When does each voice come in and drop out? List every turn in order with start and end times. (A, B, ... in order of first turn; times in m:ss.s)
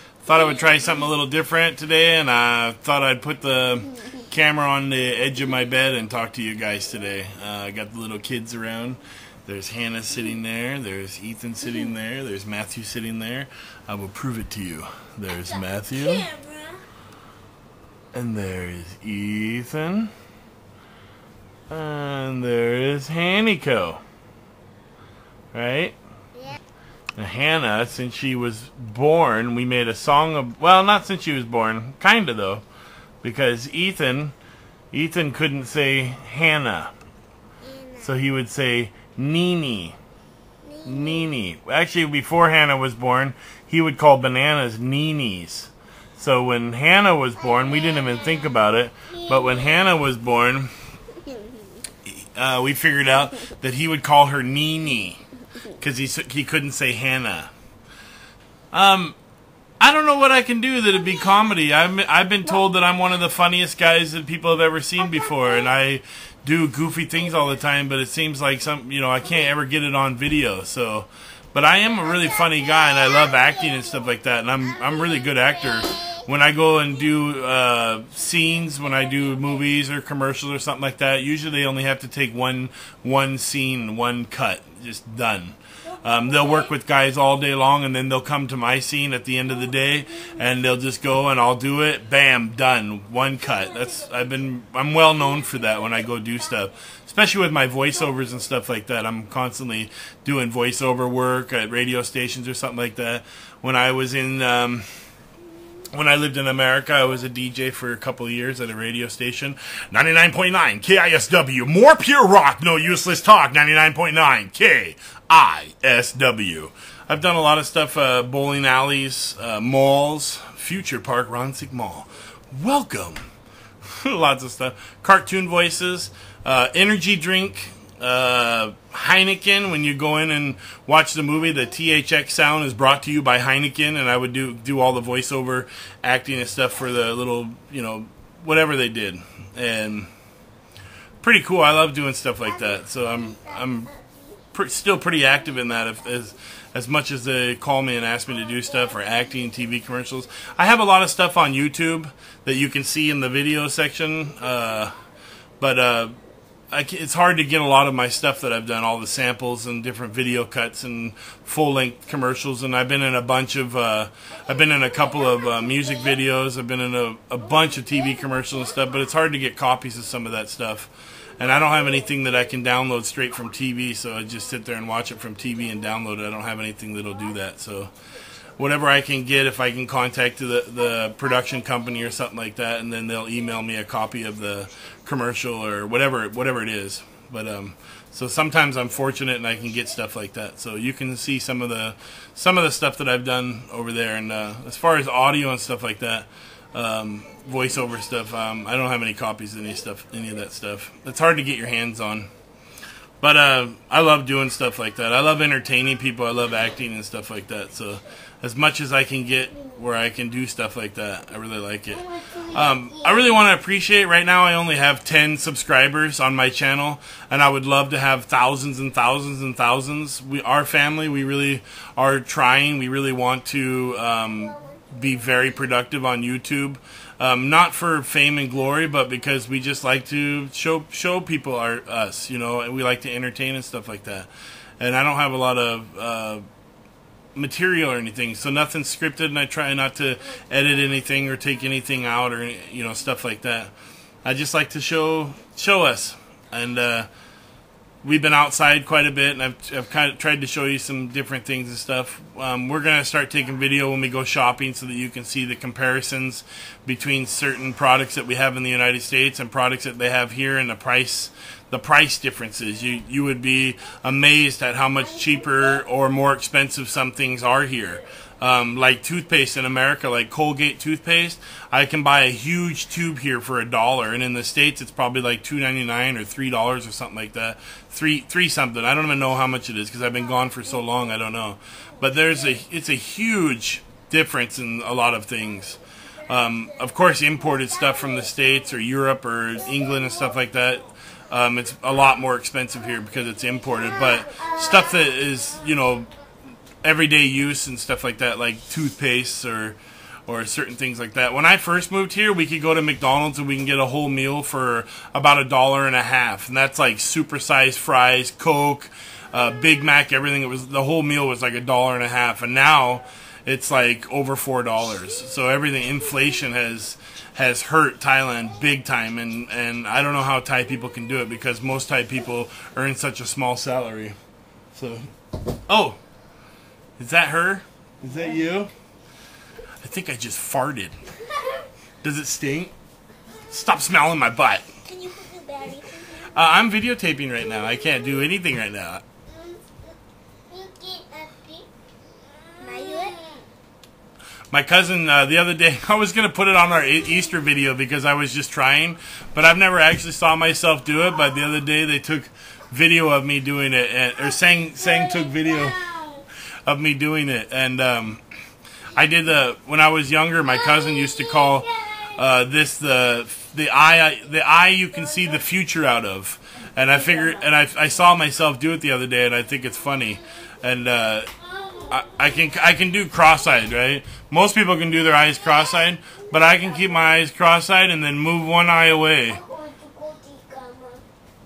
0:00.2-0:16.3 A
0:16.0-0:16.8 B
0:18.1-0:20.1 A
0:21.7-0:24.0 A
0:25.5-0:26.0 A
0:27.2-0:32.6 A
0:33.2-0:34.3 A
0:34.9-0:36.9 A
0:37.6-0:38.1 B
0:38.0-0:40.0 A
0:40.6-0:41.2 B
0:40.8-0:50.7 A
0:47.6-0:48.2 B
0:49.3-0:49.6 B
0:52.0-0:55.2 A
0:55.8-0:57.5 A
0:58.7-0:59.2 A
0:59.8-1:44.8 A
1:45.9-2:03.2 A
2:03.9-2:20.1 A
2:21.2-2:23.9 A
2:24.0-2:24.2 B
2:24.5-2:34.9 A
2:35.6-2:36.2 A
2:36.7-2:57.9 A
2:58.6-3:22.3 A
3:23.2-3:54.3 A
3:32.2-3:32.6 B
3:54.8-3:56.4 A
3:57.3-4:03.7 A
4:04.2-4:07.1 A
4:08.0-4:56.1 A
4:56.8-5:24.2 A
5:24.7-5:25.1 A
5:25.7-5:26.0 A
5:27.0-5:28.7 A
5:29.8-5:31.0 A
5:32.0-5:32.7 A
5:33.5-5:34.7 A
5:34.8-5:36.2 B
5:36.2-5:39.0 A
5:40.5-5:41.6 B
5:42.6-5:43.2 B
5:44.5-5:55.9 A
5:55.0-5:56.2 B
5:56.6-5:58.2 A
5:58.9-6:11.3 A
6:11.5-6:11.9 B
6:11.9-6:19.4 A
6:19.3-6:21.0 B